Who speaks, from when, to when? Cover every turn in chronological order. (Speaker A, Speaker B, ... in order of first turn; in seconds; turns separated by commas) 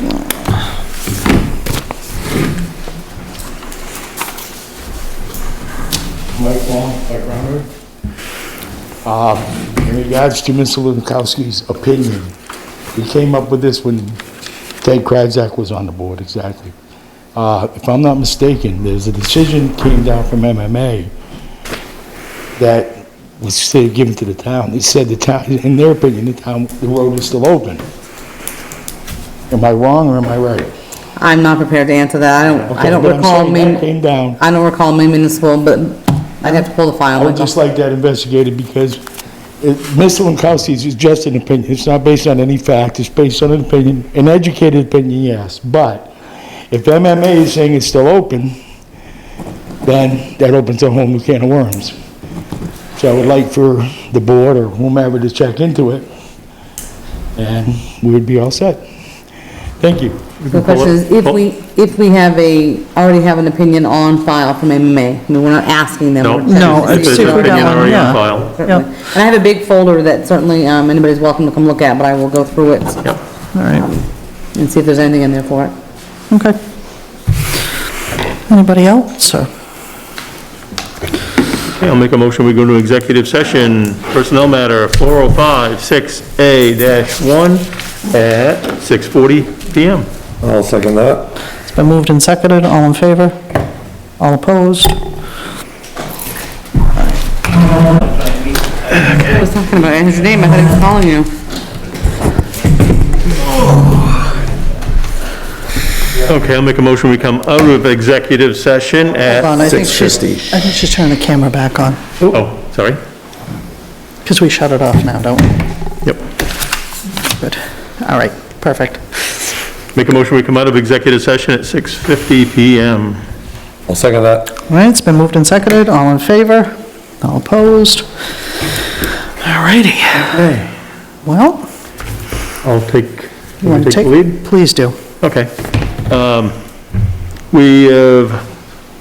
Speaker A: 6.3-7.7, Speaker A: 9.0-12.3, Speaker A: 12.9-14.2, Speaker A: 14.8-16.7, Speaker A: 17.4-21.1, Speaker A: 22.6-27.8, Speaker A: 29.5-30.7, Speaker B: 31.2-33.8, Speaker A: 32.7-34.4, Speaker B: 34.4-37.5, Speaker A: 37.1-39.0, Speaker A: 39.6-46.1, Speaker A: 46.7-48.6, Speaker A: 49.8-52.0, Speaker A: 53.0-56.1, Speaker A: 57.4-58.8, Speaker A: 59.8-60.2, Speaker C: 60.4-61.4, Speaker B: 60.5-73.1, Speaker C: 66.2-68.5, Speaker D: 66.5-68.8, Speaker D: 73.5-73.9, Speaker B: 74.5-75.7, Speaker D: 76.3-76.6, Speaker D: 78.5-79.5, Speaker C: 81.8-90.1, Speaker E: 90.4-91.3, Speaker D: 91.7-93.4, Speaker D: 94.2-95.0, Speaker B: 99.2-101.3, Speaker C: 106.2-109.8, Speaker D: 109.3-112.0, Speaker E: 109.6-110.6, Speaker C: 112.2-113.0, Speaker D: 114.2-115.6, Speaker D: 117.4-119.5, Speaker C: 119.9-123.2, Speaker E: 123.9-124.5, Speaker D: 124.7-128.1, Speaker D: 129.4-130.4, Speaker C: 130.3-130.7, Speaker D: 131.2-131.7, Speaker C: 132.6-134.4, Speaker D: 133.6-135.0, Speaker C: 135.2-135.5, Speaker C: 136.1-136.6, Speaker C: 137.5-138.4